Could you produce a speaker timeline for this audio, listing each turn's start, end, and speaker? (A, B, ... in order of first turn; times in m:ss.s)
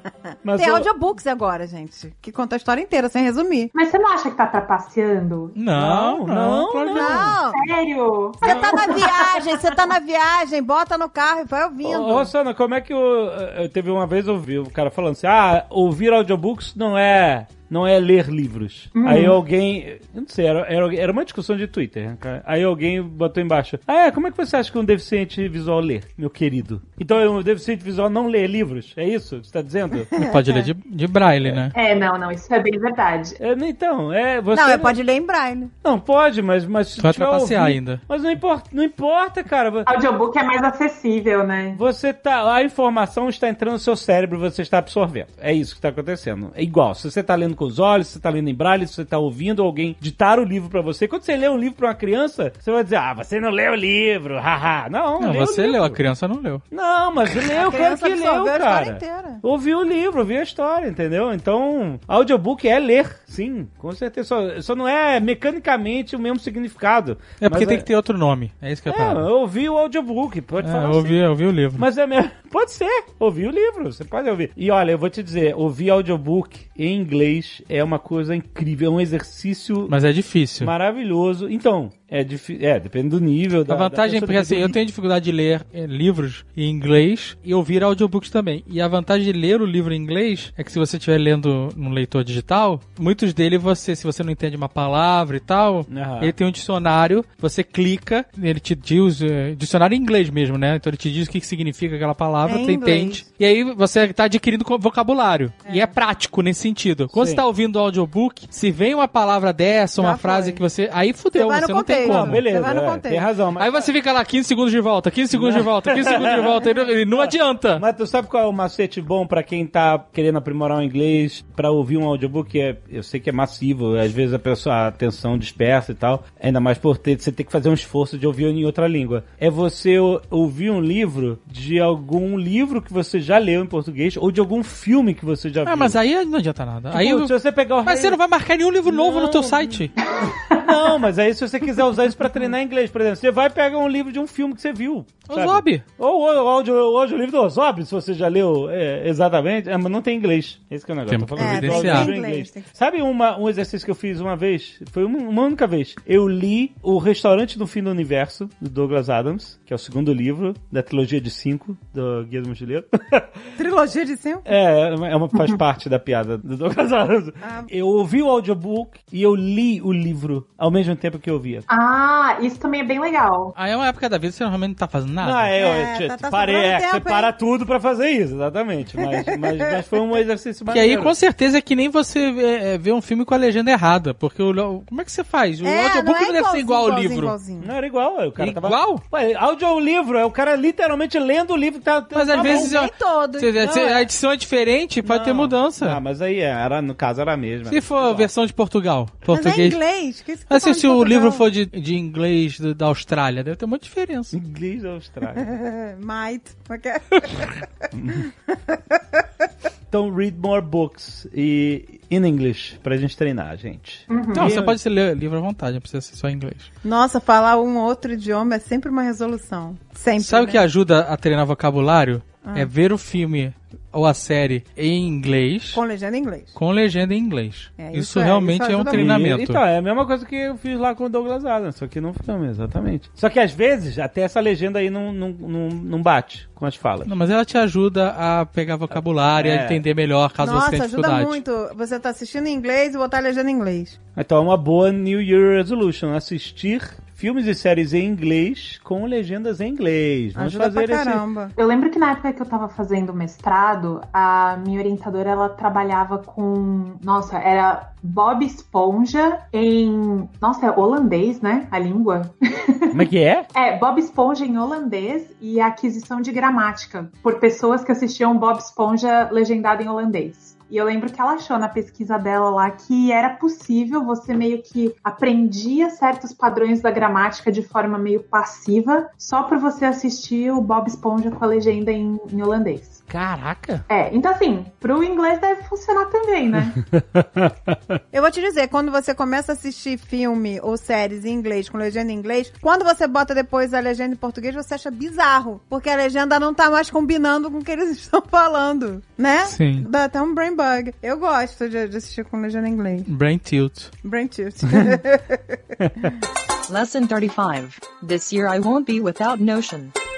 0:00.4-0:00.9 A
0:00.5-0:03.7 B
0:03.8-0:05.6 C
0:05.6-0:07.4 D
0:05.8-0:07.4 A
0:06.9-0:07.6 B
0:07.5-0:09.7 C
0:08.4-0:12.3 B
0:11.8-0:30.1 A
0:19.0-0:19.4 C
0:30.2-0:30.7 B
0:30.2-0:31.7 D
0:31.7-0:33.4 C
0:33.4-0:35.0 A
0:34.5-0:35.7 B
0:35.8-0:39.9 A
0:37.0-0:38.0 D
0:39.8-0:41.8 C
0:41.8-0:56.0 A
0:55.2-0:56.6 D
0:56.7-1:07.9 A
0:57.4-0:59.4 B
1:07.4-1:09.3 D
1:08.9-1:11.2 A
1:10.6-1:11.8 D
1:11.8-1:19.9 A
1:19.9-1:20.7 D
1:20.6-1:24.8 A
1:23.7-1:52.4 D
1:35.9-1:36.3 A
1:42.4-1:43.2 B
1:45.7-1:45.9 B
1:47.1-1:47.4 A
1:50.0-1:50.6 B
1:51.3-1:53.2 B
1:52.0-1:53.9 A
1:53.6-1:57.8 D
1:55.3-2:16.0 A
2:15.6-2:19.9 D
2:16.9-2:18.2 A
2:18.9-2:19.9 A
2:20.1-2:20.6 C
2:20.4-2:43.4 A
2:25.3-2:25.8 D
2:31.1-2:32.1 D
2:31.4-2:32.7 B
2:43.6-2:44.5 B
2:44.5-2:51.7 A
2:47.4-2:47.7 B
2:51.7-2:53.6 C
2:53.6-2:55.5 D
2:55.2-3:01.1 A
2:55.6-2:57.3 B
2:59.1-2:59.5 B
3:00.7-3:07.4 D
3:05.6-3:07.7 B
3:07.6-3:12.7 A
3:08.4-3:09.0 D
3:12.1-3:16.0 D
3:12.4-3:13.8 B
3:13.6-3:14.0 A
3:15.0-3:18.3 A
3:17.7-3:19.8 D
3:19.3-3:21.5 B
3:20.5-3:24.4 D
3:24.3-3:25.6 A
3:25.4-3:27.6 B
3:27.9-3:28.3 A
3:28.3-3:29.3 B
3:29.9-3:34.8 A
3:34.1-3:34.5 C
3:34.3-3:36.7 D
3:36.8-3:40.6 B
3:40.2-3:45.8 D
3:42.4-3:42.7 B
3:45.7-3:46.6 B
3:46.6-3:49.6 D
3:47.8-3:49.2 B
3:48.9-3:57.1 A
3:57.1-4:01.4 D
3:59.4-3:59.8 A
4:00.4-4:04.0 B
4:04.2-4:11.2 A
4:10.4-4:11.5 B
4:11.6-4:23.0 C
4:22.9-4:23.5 A
4:23.5-4:43.0 C
4:43.1-4:43.8 A
4:43.9-4:46.8 C
4:47.0-4:47.8 A
4:48.1-5:03.1 B
4:59.5-4:59.9 D
5:03.1-5:03.9 D
5:04.0-5:06.0 B
5:04.7-5:05.0 A
5:05.8-5:06.1 A
5:06.7-5:09.9 E